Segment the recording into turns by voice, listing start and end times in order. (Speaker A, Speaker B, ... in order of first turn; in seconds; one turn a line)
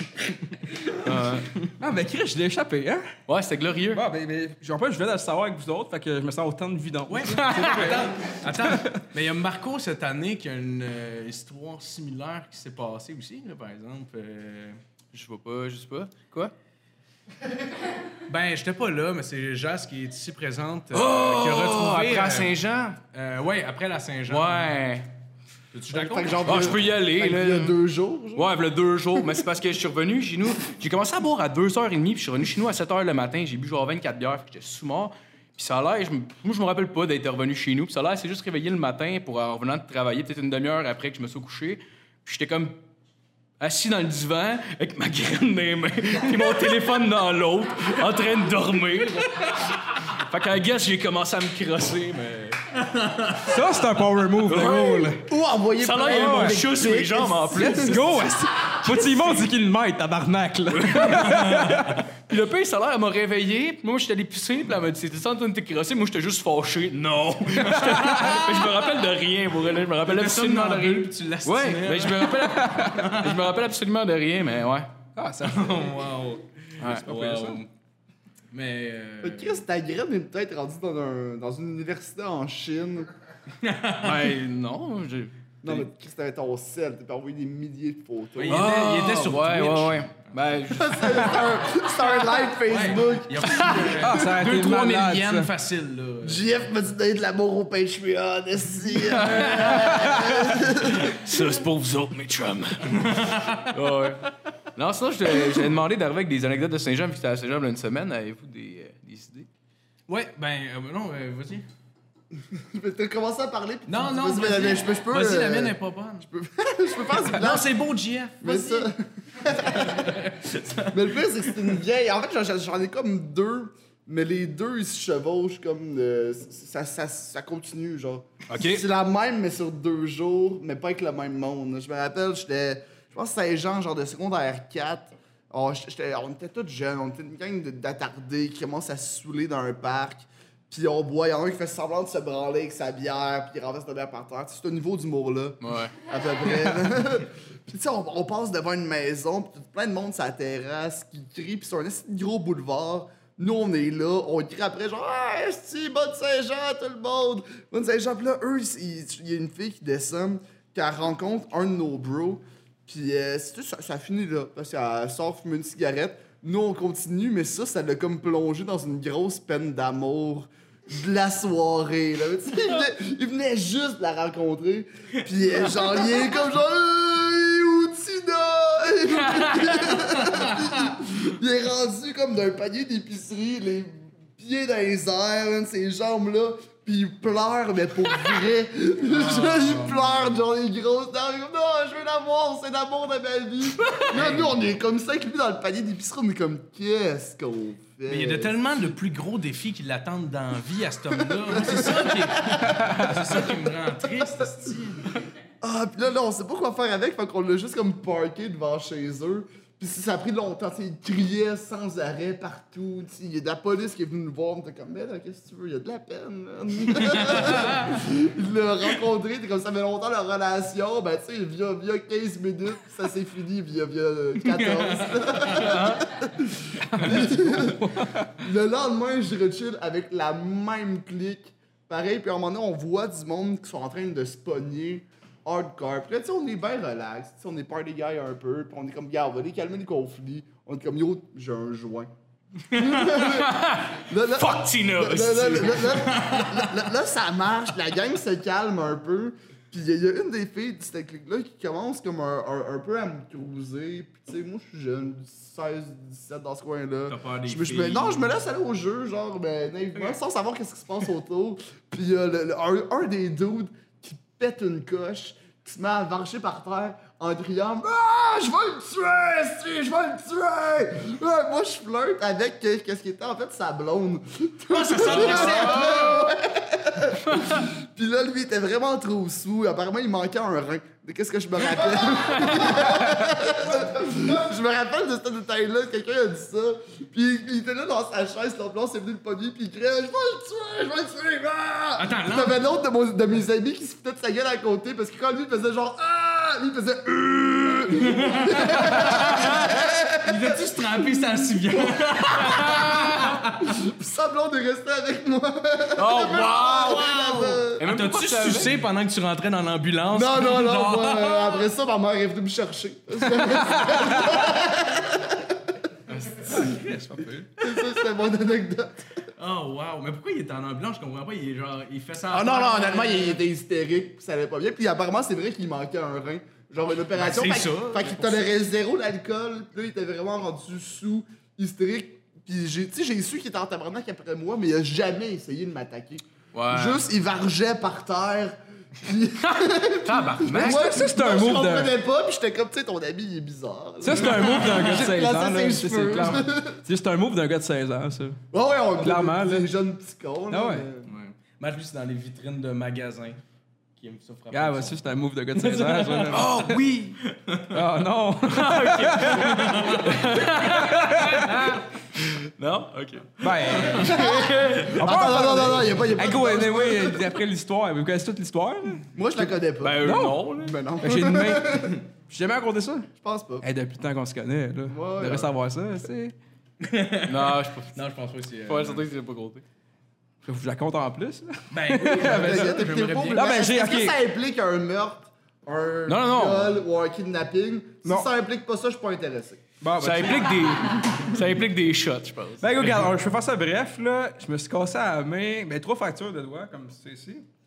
Speaker A: 0.9-1.5
Speaker B: 1.6-3.1
Speaker A: 3.3-4.0
Speaker B: 3.9-9.0
Speaker C: 7.1-14.8
Speaker A: 7.4-7.9
Speaker A: 15.1-16.5
Speaker C: 18.3-22.5
Speaker A: 20.9-23.0
Speaker C: 23.1-24.7
Speaker A: 24.3-25.1
Speaker C: 25.7-26.7
Speaker D: 25.9-28.5
Speaker A: 26.4-27.8
Speaker A: 28.3-42.8
Speaker A: 43.6-52.6
Speaker C: 52.9-53.5
Speaker B: 53.4-55.2
Speaker A: 54.5-55.2
Speaker D: 55.1-58.1
Speaker A: 55.8-58.3
Speaker B: 56.0-56.6
Speaker B: 57.5-62.1
Speaker A: 60.7-74.9
Speaker B: 67.7-68.4
Speaker C: 70.1-73.3
Speaker B: 72.5-73.0
Speaker B: 75.2-76.0
Speaker C: 75.4-77.7
Speaker A: 76.8-77.2
Speaker B: 76.8-77.6
Speaker C: 78.5-79.6
Speaker D: 79.2-83.1
Speaker C: 83.6-84.3
Speaker A: 84.0-85.8
Speaker D: 85.6-88.7
Speaker C: 88.3-90.3
Speaker A: 88.5-91.6
Speaker D: 90.7-94.3
Speaker C: 92.7-96.6
Speaker B: 94.0-95.5
Speaker D: 96.2-101.2
Speaker A: 98.9-104.2
Speaker B: 99.9-100.3
Speaker C: 102.9-103.8
Speaker A: 104.7-109.5
Speaker C: 110.1-111.6
Speaker D: 112.5-117.7
Speaker C: 113.9-116.3
Speaker C: 117.1-118.9
Speaker D: 118.4-120.2
Speaker C: 119.5-121.7
Speaker D: 120.9-198.5
Speaker A: 128.5-128.8
Speaker A: 145.6-145.9
Speaker A: 179.4-179.7
Speaker C: 189.1-190.4
Speaker C: 194.0-194.6
Speaker C: 198.1-205.2
Speaker D: 201.4-204.3
Speaker B: 202.8-203.1
Speaker D: 205.6-242.1
Speaker C: 217.1-217.9
Speaker C: 224.4-225.9
Speaker A: 225.6-226.0
Speaker B: 227.0-228.3
Speaker D: 242.7-300.6
Speaker A: 242.8-246.1
Speaker C: 246.0-246.5
Speaker C: 257.1-258.2
Speaker C: 274.7-276.3
Speaker A: 275.1-276.0
Speaker C: 292.0-292.6
Speaker C: 298.0-303.7
Speaker D: 301.1-307.8
Speaker A: 302.5-303.0
Speaker A: 305.9-308.8
Speaker C: 307.8-311.7
Speaker D: 310.1-315.6
Speaker A: 316.1-316.5
Speaker B: 316.4-317.5
Speaker D: 317.6-319.0
Speaker C: 319.4-323.4
Speaker D: 322.3-346.8
Speaker C: 327.1-328.5
Speaker A: 336.5-337.0
Speaker A: 339.4-340.9
Speaker B: 340.5-341.9
Speaker B: 344.0-348.4
Speaker A: 344.1-344.8
Speaker D: 348.5-351.1
Speaker B: 349.0-349.7
Speaker B: 350.5-350.9
Speaker C: 351.0-353.4
Speaker C: 354.0-355.0
Speaker B: 354.5-356.9
Speaker C: 355.5-356.4
Speaker A: 356.3-357.2
Speaker C: 357.2-357.8
Speaker B: 357.7-361.7
Speaker A: 358.4-365.3
Speaker C: 359.2-360.3
Speaker B: 363.4-364.2
Speaker D: 364.0-367.3
Speaker B: 364.9-373.1
Speaker D: 369.1-372.0
Speaker A: 369.8-370.8
Speaker D: 373.2-373.6
Speaker B: 373.6-376.3
Speaker D: 374.9-375.5
Speaker C: 376.8-379.0
Speaker A: 377.3-378.0
Speaker A: 378.7-379.6
Speaker B: 380.4-384.2
Speaker C: 381.7-383.5
Speaker D: 382.2-389.6
Speaker A: 386.1-386.8
Speaker B: 388.0-388.3
Speaker B: 389.8-391.3
Speaker A: 390.0-393.1
Speaker B: 392.6-397.4